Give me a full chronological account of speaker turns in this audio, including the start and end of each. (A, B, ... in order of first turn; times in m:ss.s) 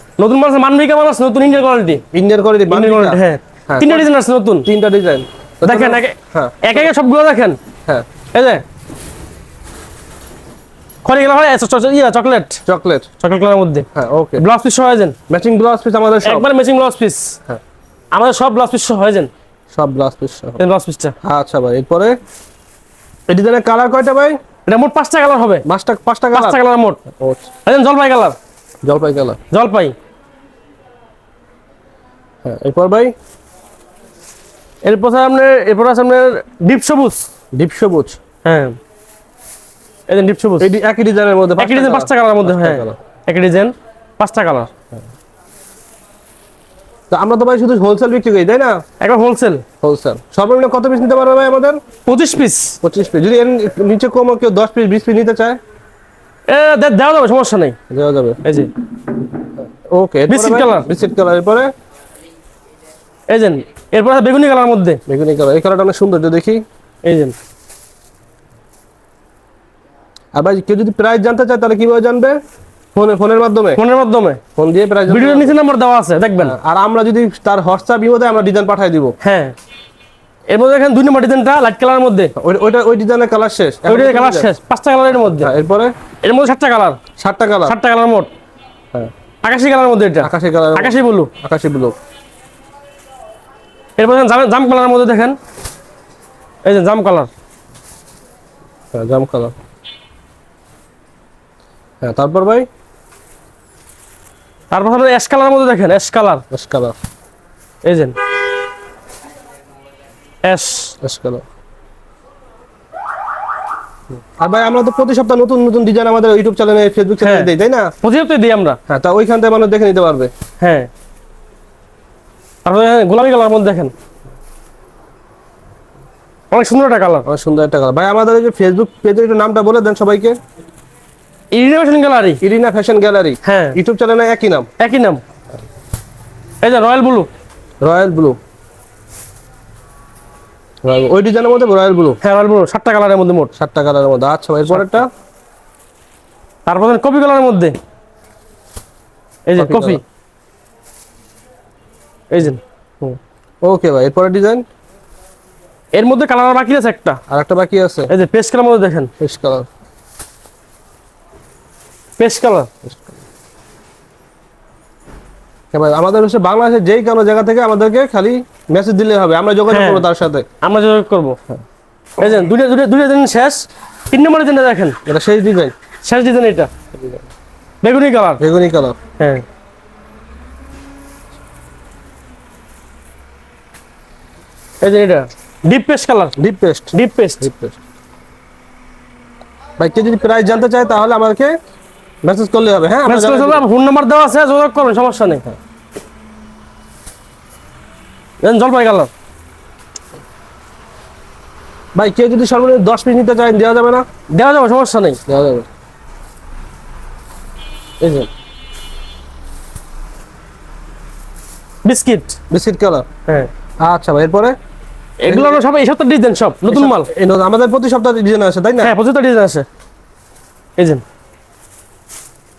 0:00.2-0:02.0 A
0:02.1-0:04.1 B
0:02.7-0:04.7 A
0:04.6-0:06.9 B
0:05.6-0:07.6 A
0:08.3-0:08.6 A
0:11.0-0:12.6 A
0:12.7-0:13.1 B
0:13.2-0:13.9 A
0:13.9-0:14.4 B
0:14.4-0:15.2 A
0:15.3-0:16.5 B
0:16.2-0:17.3 A
0:18.1-0:19.3 A
0:19.7-0:20.6 B
0:20.6-0:21.1 A
0:21.2-0:22.2 B
0:23.3-0:24.4 B
0:24.7-0:25.6 A
0:25.6-0:27.5 B
0:26.3-0:27.0 A
0:27.6-0:28.4 A
0:28.8-0:29.4 B
0:29.5-0:30.0 A
0:32.4-0:33.1 B
0:34.8-0:37.2 A
0:37.5-0:38.2 B
0:38.4-0:38.8 A
0:40.1-0:40.7 A
0:40.6-0:43.0 B
0:41.6-0:44.7 A
0:47.1-0:48.8 B
0:49.0-0:49.6 A
0:49.8-0:51.8 B
0:52.0-0:52.8 A
0:52.8-0:55.6 B
0:56.5-0:57.8 A
0:57.9-0:58.4 B
0:58.4-0:58.7 A
0:59.9-1:01.7 B
1:00.3-1:00.8 A
1:03.3-1:05.0 A
1:05.1-1:06.6 B
1:07.0-1:07.3 A
1:10.3-1:12.4 B
1:12.9-1:13.8 B
1:13.8-1:14.4 A
1:14.5-1:15.5 B
1:15.1-1:16.6 A
1:16.4-1:19.1 B
1:19.2-1:19.5 A
1:20.5-1:22.3 A
1:22.4-1:24.5 B
1:23.8-1:25.5 A
1:25.2-1:25.9 B
1:26.2-1:27.0 A
1:27.2-1:27.8 B
1:27.6-1:28.3 A
1:29.4-1:31.3 A
1:30.2-1:32.0 B
1:34.0-1:35.4 A
1:36.6-1:37.3 A
1:38.9-1:39.5 B
1:42.0-1:42.7 B
1:44.7-1:46.4 A
1:46.5-1:47.0 B
1:47.8-1:48.2 A
1:50.4-1:50.9 A
1:51.0-1:51.4 B
1:54.4-1:57.9 B
1:57.2-1:57.5 A
1:58.0-1:58.8 A
1:58.9-2:00.3 B
2:00.6-2:00.9 A
2:02.6-2:03.9 A
2:06.5-2:07.2 A
2:07.2-2:10.4 B
2:11.5-2:12.4 A
2:12.4-2:14.7 B
2:13.4-2:13.8 A
2:14.8-2:15.2 A
2:16.6-2:17.3 A
2:17.8-2:18.4 B
2:20.8-2:22.2 B
2:22.2-2:23.5 A
2:23.5-2:25.1 B
2:24.7-2:25.0 A
2:26.6-2:27.7 A
2:29.5-2:30.0 A
2:29.6-2:30.0 B
2:32.3-2:32.6 A
2:33.0-2:34.6 B
2:35.9-2:37.2 A
2:37.3-2:38.1 B
2:38.1-2:39.1 A
2:39.2-2:39.7 B
2:42.2-2:42.7 A
2:42.8-2:43.1 B
2:45.7-2:50.5 B
2:49.7-2:50.1 A
2:50.6-2:51.4 A
2:52.2-2:55.0 A
2:55.0-2:55.7 B
2:56.0-2:56.7 A
2:57.8-2:58.4 A
2:58.4-2:59.0 B
2:59.2-2:59.4 A
3:04.8-3:06.3 A
3:06.4-3:07.8 B
3:06.9-3:07.5 A
3:09.8-3:11.6 B
3:12.2-3:13.6 B
3:13.0-3:15.4 A
3:18.4-3:19.1 A
3:21.9-3:24.1 B
3:24.3-3:25.2 A
3:25.3-3:25.7 B
3:28.0-3:28.3 A
3:31.8-3:32.4 A
3:32.5-3:33.1 B
3:33.8-3:34.6 B
3:35.2-3:37.1 A
3:35.3-3:35.6 B
3:36.7-3:38.9 B
3:38.8-3:39.6 A
3:40.8-3:41.0 A